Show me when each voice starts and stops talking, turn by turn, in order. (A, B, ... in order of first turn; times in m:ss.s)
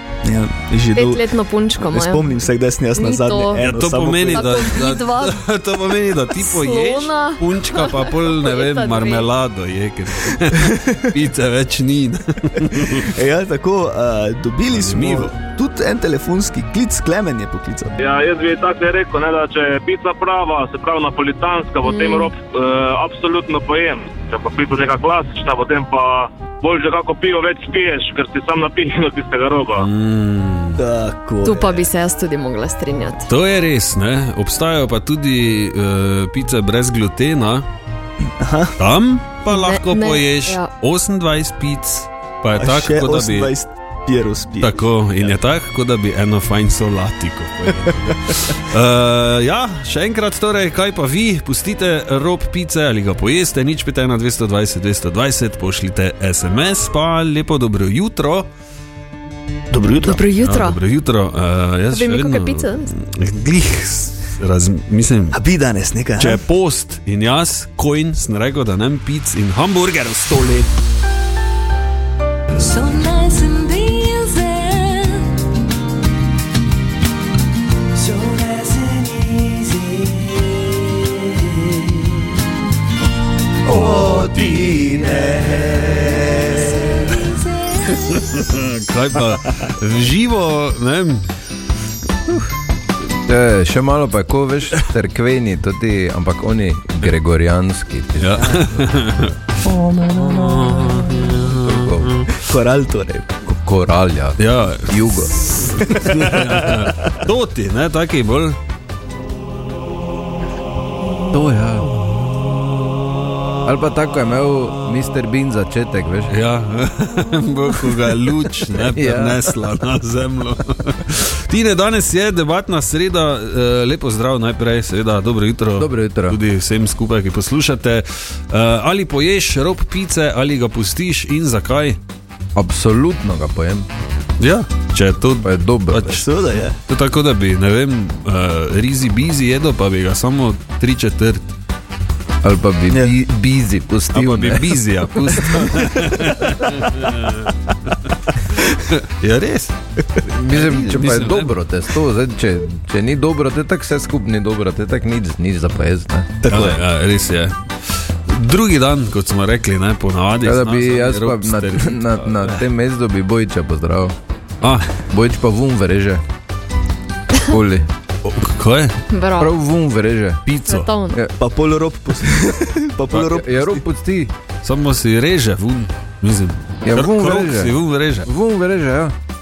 0:00.2-0:01.3 A
0:01.0-0:02.3 B
0:01.8-0:04.7 A
0:03.0-0:03.6 B
0:03.5-0:13.1 C
0:04.3-0:05.4 B
0:06.4-0:09.3 B
0:10.6-0:10.9 A
0:12.8-0:18.0 A
0:14.7-0:15.3 C
0:18.0-0:29.8 D
0:21.8-0:22.3 B
0:29.8-0:30.8 C
0:30.8-0:31.9 A
0:31.4-0:33.3 B
0:33.3-0:37.6 C
0:38.4-0:38.7 A
0:38.8-0:43.5 C
0:39.5-0:40.7 B
0:42.6-0:45.3 A
0:44.6-0:58.5 C
0:59.7-1:00.2 A
1:00.0-1:00.8 B
1:00.4-1:05.4 C
1:01.9-1:02.9 B
1:05.3-1:06.4 A
1:06.2-1:10.4 C
1:10.3-1:10.7 A
1:12.6-1:15.2 E
1:18.0-1:20.1 A
1:23.7-1:27.2 A
1:24.0-1:24.2 C
1:27.9-1:31.3 C
1:33.1-1:38.4 F
1:38.2-1:42.4 C
1:41.6-1:42.1 F
1:42.4-1:43.3 A
1:43.4-1:45.3 F
1:44.4-1:48.6 C
1:45.8-1:47.1 A
1:51.3-1:51.9 F
1:53.6-1:56.3 F
1:56.3-2:12.0 C
1:58.8-1:59.5 F
2:05.8-2:06.4 F
2:12.5-2:13.9 F
2:14.4-2:16.2 C
2:15.4-2:16.1 F
2:16.0-2:16.8 A
2:16.8-2:21.4 C
2:22.4-2:24.8 F
2:22.9-2:23.2 A
2:24.1-2:27.5 C
2:28.0-2:29.7 C
2:30.3-2:36.3 F
2:30.4-2:31.6 C
2:36.4-2:36.8 A
2:36.5-2:42.6 C
2:40.4-2:44.2 F
2:44.6-2:44.9 C
2:45.0-2:46.2 F
2:47.5-2:47.9 F
2:48.2-2:48.9 C
2:49.1-2:49.6 B
2:49.4-2:50.4 F
2:50.4-2:50.9 C
2:50.7-2:51.2 B
2:51.4-2:53.6 A
2:53.1-2:53.8 C
2:53.4-2:54.3 F
2:54.6-2:58.3 C
2:56.8-2:59.1 F